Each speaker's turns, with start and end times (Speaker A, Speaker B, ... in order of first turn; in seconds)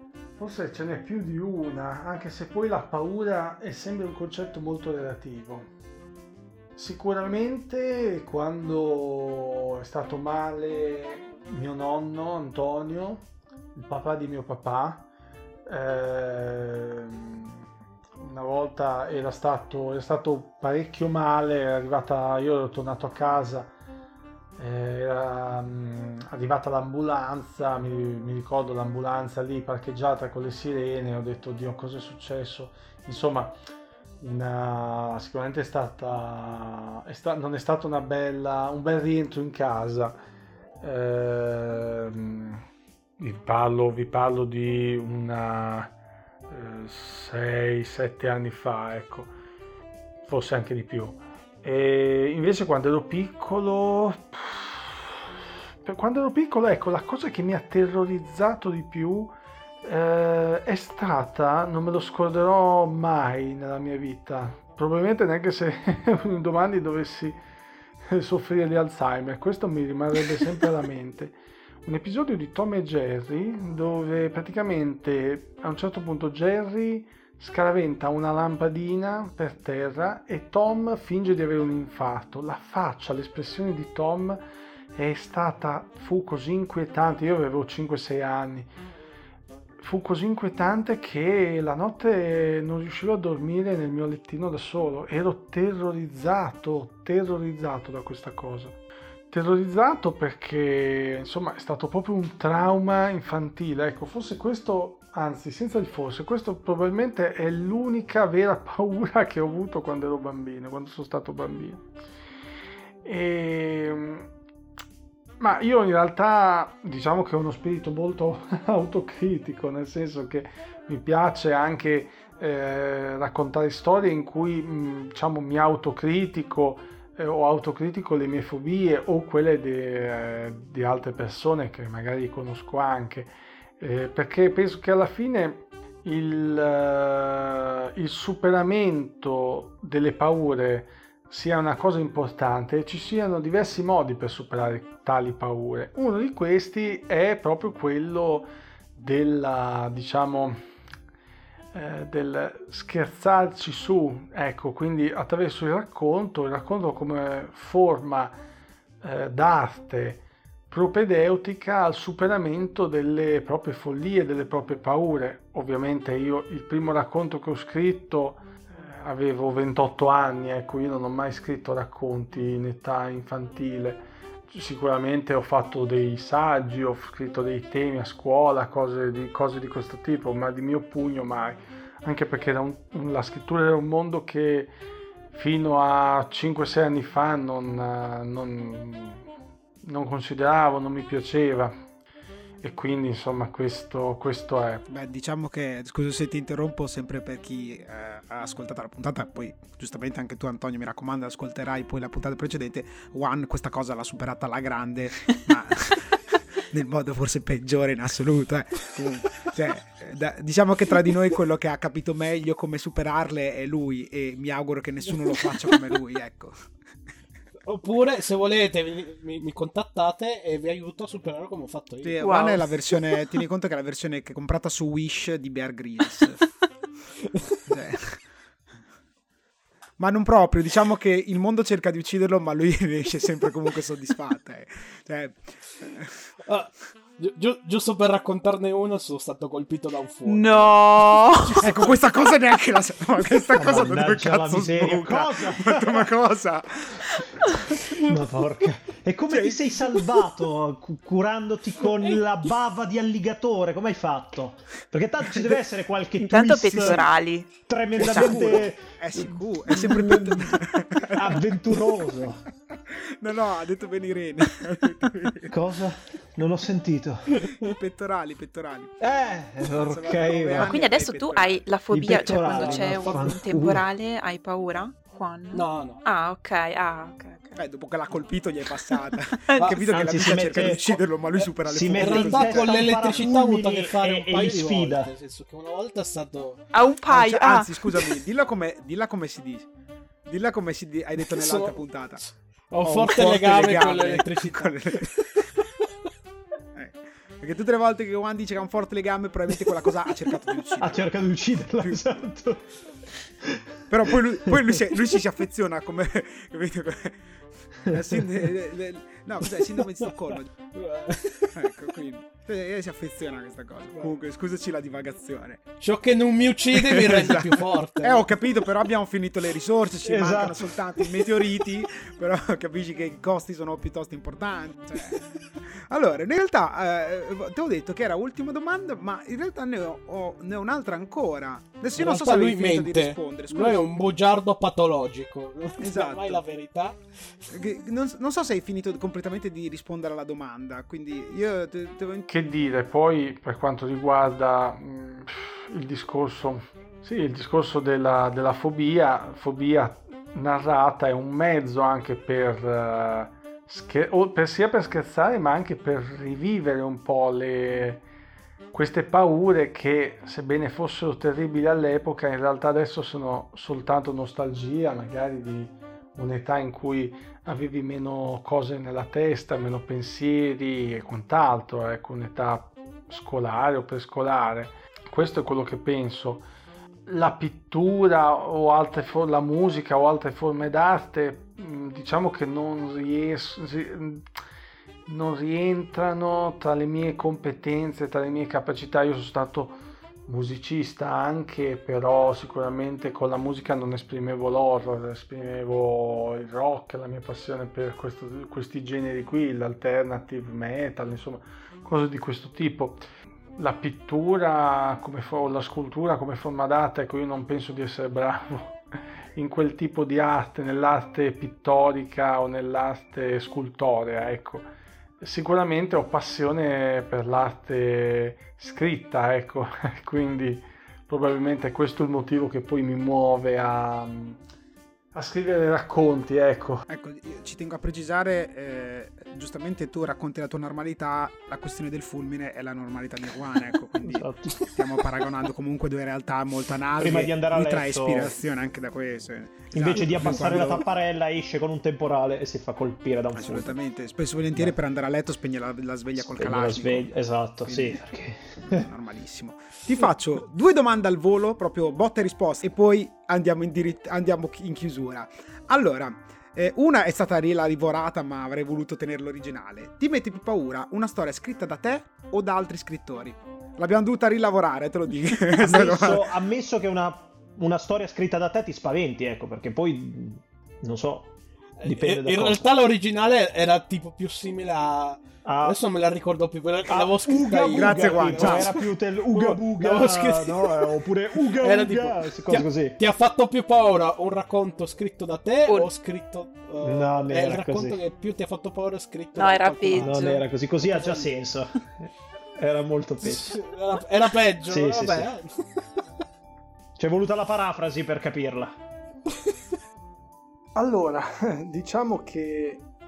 Speaker A: 0.4-5.7, 6.7-15.1, 15.7-17.6, 18.2-23.7, 24.6-33.5, 34.2-40.1, 40.8-42.6, 43.2-45.9, 46.5-49.3, 50.2-55.2, 55.8-59.3, 59.8-67.3, 68.1-84.4, 84.9-88.7, 89.8-98.8, 99.3-111.8, 113.0-114.3, 115.4-150.6, 151.7-158.3, 159.0-184.7, 185.3-189.2, 189.8-191.7, 192.6-194.8, 342.3-358.0, 358.7-376.4, 377.1-384.3, 385.1-403.0, 403.6-414.7, 415.2-424.4, 425.1-426.8, 500.7-502.8
Speaker B: 194.9-216.7, 222.0-226.5, 227.7-228.2, 230.0-236.1, 241.6-247.2, 249.3-249.8, 256.7-257.1, 258.0-261.8, 262.9-265.5, 267.6-269.0, 269.7-271.6, 272.4-273.1, 277.6-283.3, 287.1-289.7, 290.2-292.2, 292.8-295.2, 296.7-301.0, 301.8-302.2, 303.9-307.2, 307.7-310.5, 311.5-315.6, 316.7-333.8, 335.8-336.4, 337.5-342.3, 426.9-440.9, 443.4-447.1, 447.6-448.0, 448.6-466.2, 477.7-478.7
Speaker C: 217.6-222.2, 236.5-240.9, 272.4-273.3, 275.5-276.0, 279.6-280.8, 281.4-286.7, 291.2-295.6, 310.7-311.7, 315.8-318.5, 331.9-337.6, 471.8-491.3, 493.2-495.8
Speaker D: 222.2-222.7, 240.2-241.7, 256.2-257.5, 270.6-277.6, 279.4-279.8, 286.7-288.2, 489.4-490.4
Speaker E: 243.6-246.1, 247.9-257.1, 257.6-260.6, 261.1-262.4, 265.5-267.5, 269.0-270.8, 271.9-273.9, 279.9-281.0, 281.6-285.1, 300.8-302.6, 303.4-304.6, 320.0-320.7, 434.0-434.5, 437.0-438.4, 439.7-443.8, 446.2-448.8, 465.5-472.6, 475.4-475.8, 476.9-483.0, 486.8-488.0, 490.0-493.6, 494.6-495.3, 497.0-498.7